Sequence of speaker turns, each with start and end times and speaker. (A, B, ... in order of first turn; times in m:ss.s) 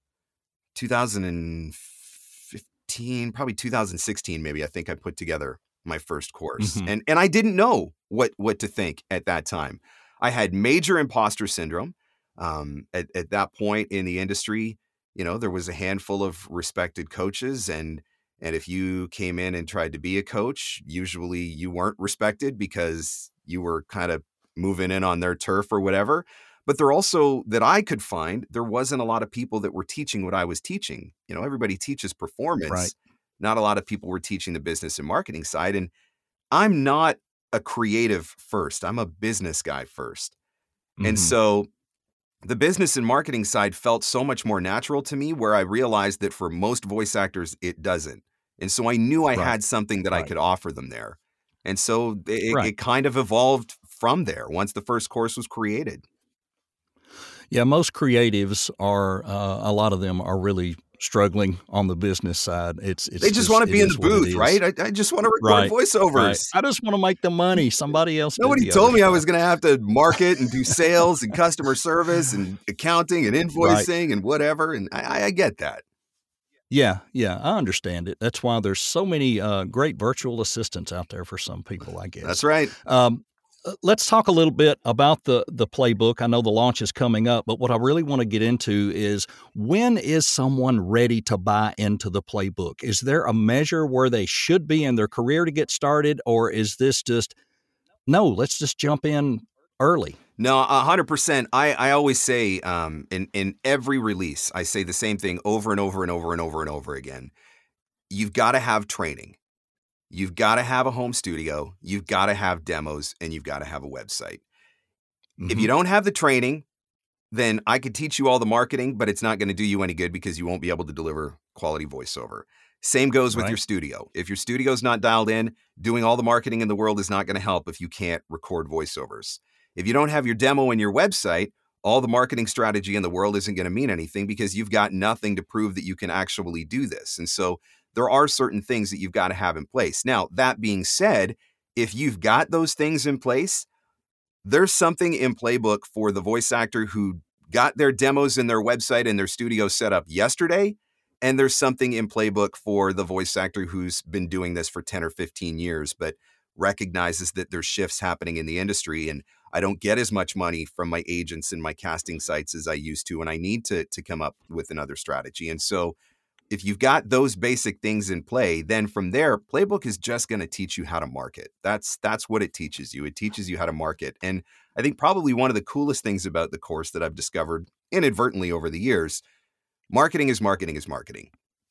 0:00.8-0:35.9 A
0:06.6-0:06.9 B
0:36.5-0:40.4 A
0:41.0-0:41.3 B
0:41.0-0:41.7 A
0:42.4-0:56.0 A
0:57.5-1:04.6 B
1:03.2-1:06.5 A
1:05.4-1:09.2 B
1:08.4-1:15.8 A
1:13.6-1:13.9 B
1:16.7-1:37.4 B
1:22.2-1:22.7 A
1:38.1-1:40.2 B
1:40.4-1:47.3 A
1:48.1-1:49.4 A
1:50.1-1:54.4 A
1:55.4-1:55.7 B
1:55.5-1:56.6 A
1:57.3-2:23.6 A
2:24.4-2:46.0 A
2:46.5-2:59.2 A
2:59.9-3:01.3 A